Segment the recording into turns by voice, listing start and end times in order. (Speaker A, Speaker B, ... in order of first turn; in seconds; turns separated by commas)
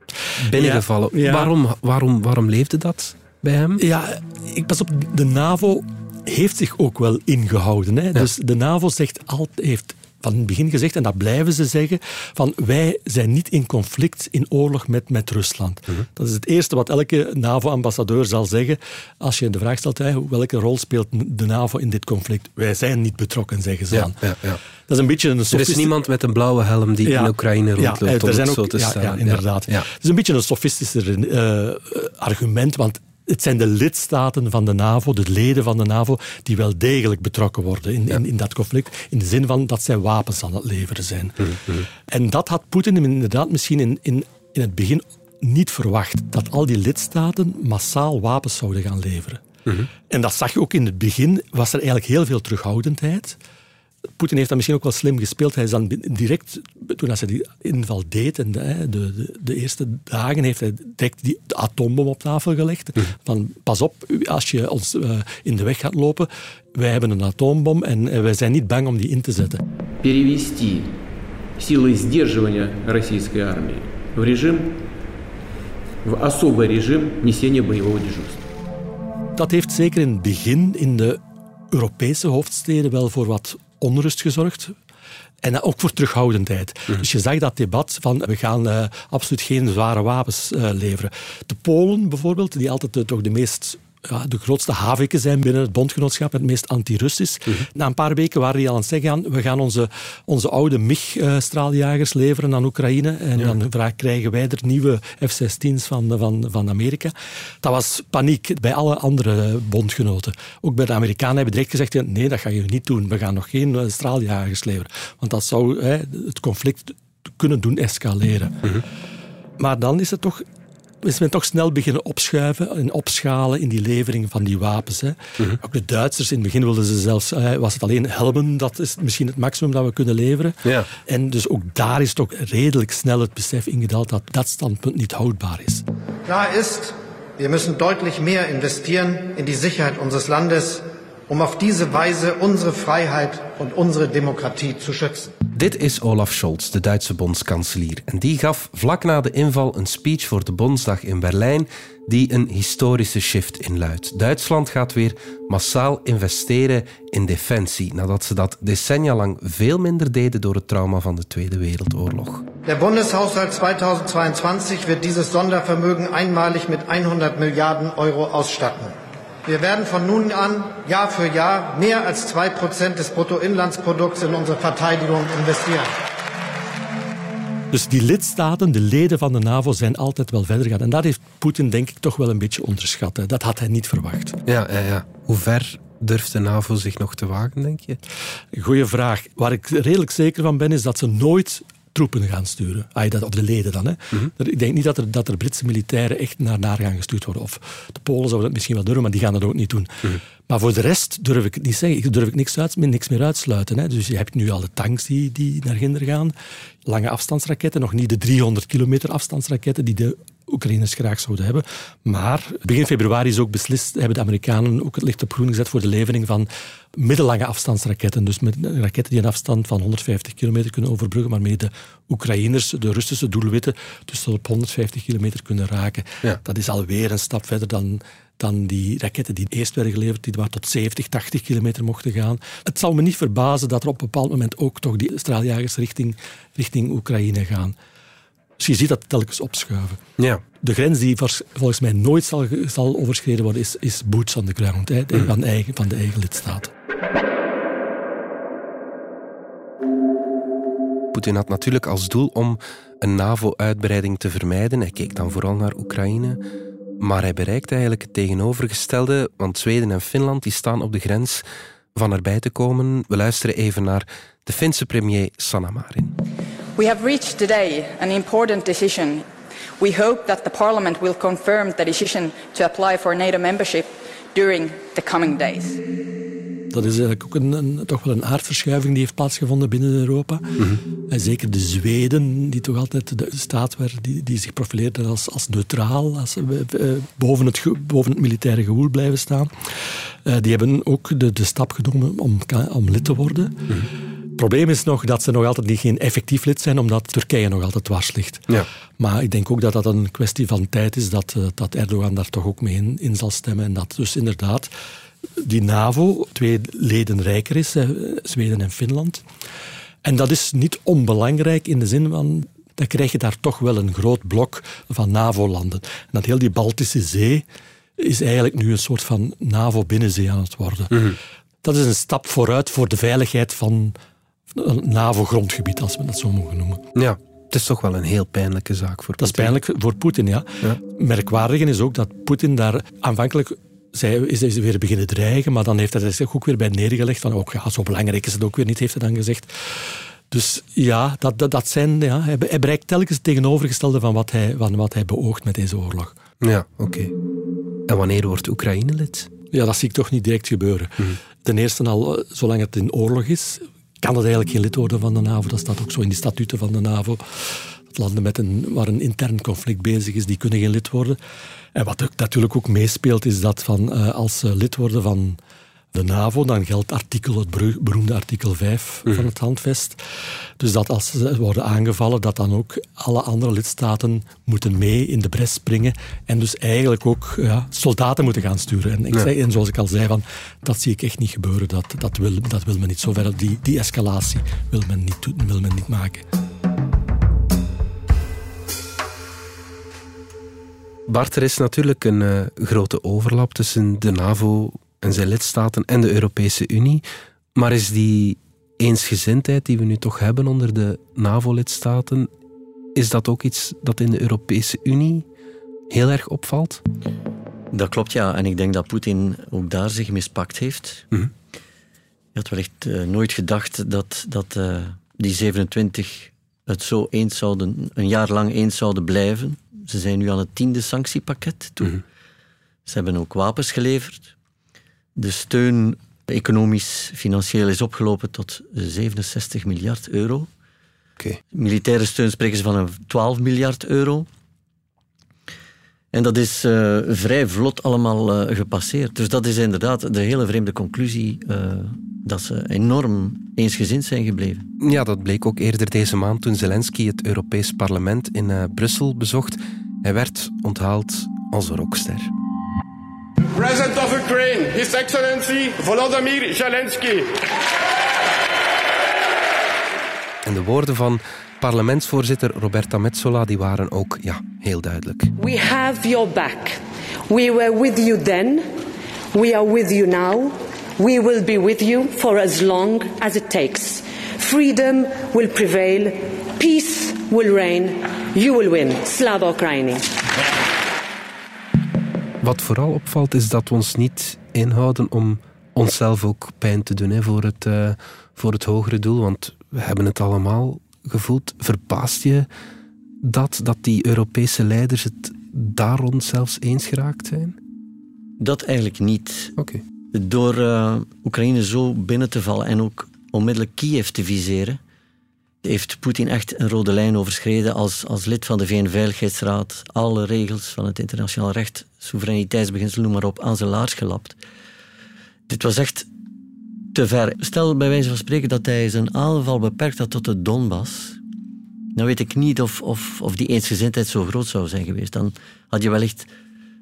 Speaker A: 0.4-1.5, Speaker B: 0.4-3.8, Speaker A: 3.8-24.2, Speaker B: 23.9-24.6, Speaker A: 24.9-25.9, Speaker B: 25.5-29.9, Speaker A: 27.1-49.4, Speaker A: 50.1-53.4, Speaker A: 54.2-69.6, Speaker C: 70.0-70.9, Speaker C: 71.6-74.7, Speaker C: 76.0-78.4, Speaker A: 79.4-81.2, Speaker A: 81.7-84.8, Speaker A: 85.4-118.6, Speaker A: 119.6-120.5, Speaker A: 121.0-135.8, Speaker B: 130.6-130.9, Speaker D: 136.3-145.3, Speaker B: 145.5-162.5, Speaker D: 162.7-168.9, Speaker D: 169.5-175.9, Speaker A: 177.7-184.4, Speaker B: 184.5-188.0, Speaker A: 188.5-206.3, Speaker A: 206.9-237.8, Speaker A: 238.6-240.0, Speaker A: 240.6-246.7, Speaker B: 251.1-256.4, Speaker B: 257.0-266.1, Speaker E: 266.8-269.3, Speaker E: 269.8-275.8, Speaker A: 276.7-293.6, Speaker A: 294.4-298.5, Speaker A: 299.0-304.7, Speaker A: 305.4-309.2, Speaker A: 310.0-317.4, Speaker A: 318.0-324.0, Speaker A: 324.5-326.8, Speaker B: 326.9-329.6, Speaker A: 329.2-346.2, Speaker B: 346.4-347.1, Speaker B: 347.9-349.3, Speaker A: 349.5-361.2, Speaker A: 361.8-365.4, Speaker A: 365.9-386.2, Speaker B: 391.1-397.0, Speaker B: 397.6-402.3, Speaker B: 402.9-405.3, Speaker B: 405.9-406.8, Speaker F: 407.7-411.1, Speaker F: 412.4-422.0, Speaker F: 422.9-424.3, Speaker F: 425.2-430.5, Speaker F: 431.5-434.3, Speaker F: 436.1-444.7, Speaker B: 444.8-452.3, Speaker G: 453.5-457.3, Speaker B: 460.4-465.3, Speaker H: 465.4-468.7, Speaker H: 469.3-480.1, Speaker B: 482.4-492.5, Speaker B: 493.2-497.6, Speaker F: 498.4-499.6, Speaker B: 499.6-499.8, Speaker F: 500.1-504.8, Speaker F: 505.6-514.4, Speaker F: 515.5-516.1, Speaker F: 516.9-521.2, Speaker F: 522.0-526.3